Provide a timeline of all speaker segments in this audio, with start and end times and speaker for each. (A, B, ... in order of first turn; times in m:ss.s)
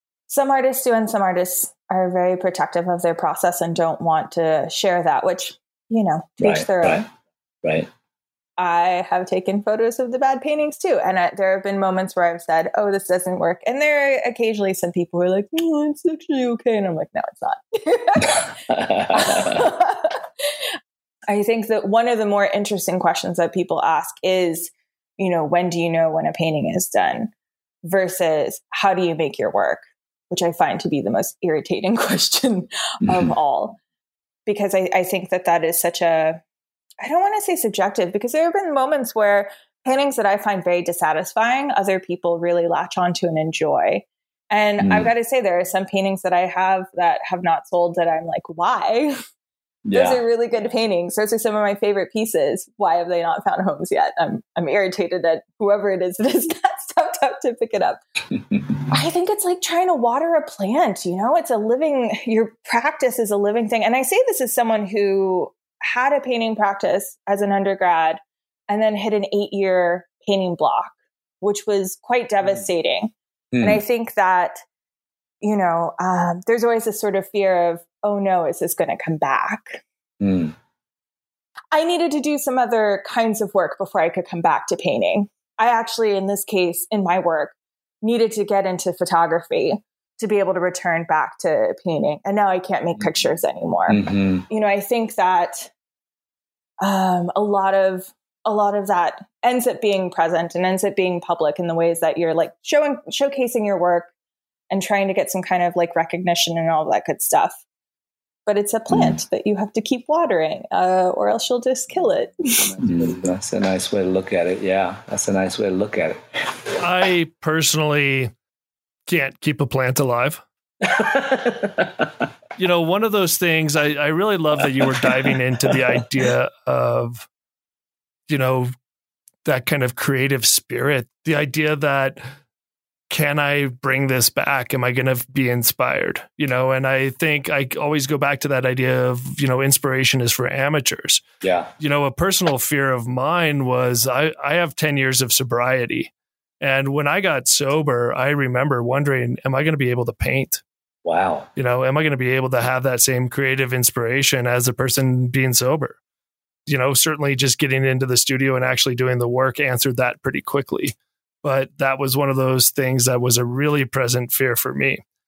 0:00.3-0:07.1 A
0:06.4-0:07.0 B
0:08.6-0:18.6 A
0:18.7-0:19.7 B
0:19.1-0:20.2 A
0:21.3-0:27.3 A
0:27.8-0:33.8 A
0:33.0-0:33.3 B
0:34.5-0:36.4 A
0:37.0-0:49.2 A
0:44.8-0:45.1 B
0:49.9-0:50.2 B
0:49.9-0:58.0 A
0:58.4-0:58.8 B
0:58.9-1:14.6 A
1:13.5-1:13.8 B
1:15.4-1:19.8 A
1:20.2-1:20.6 B
1:21.7-1:35.7 A
1:33.9-1:34.5 B
1:36.8-1:44.1 A
1:44.7-1:47.6 A
1:48.5-1:52.8 A
1:48.9-1:49.2 B
1:52.8-1:56.8 B
1:56.8-1:58.3 C
1:59.1-2:00.4 C
2:00.8-2:02.2 B
2:02.6-2:07.3 C
2:08.3-2:08.7 C
2:09.4-2:12.2 C
2:13.1-2:21.2 C
2:21.4-2:21.7 B
2:21.8-2:30.6 C
2:31.0-2:31.5 B
2:31.6-2:36.0 C
2:36.7-2:45.0 C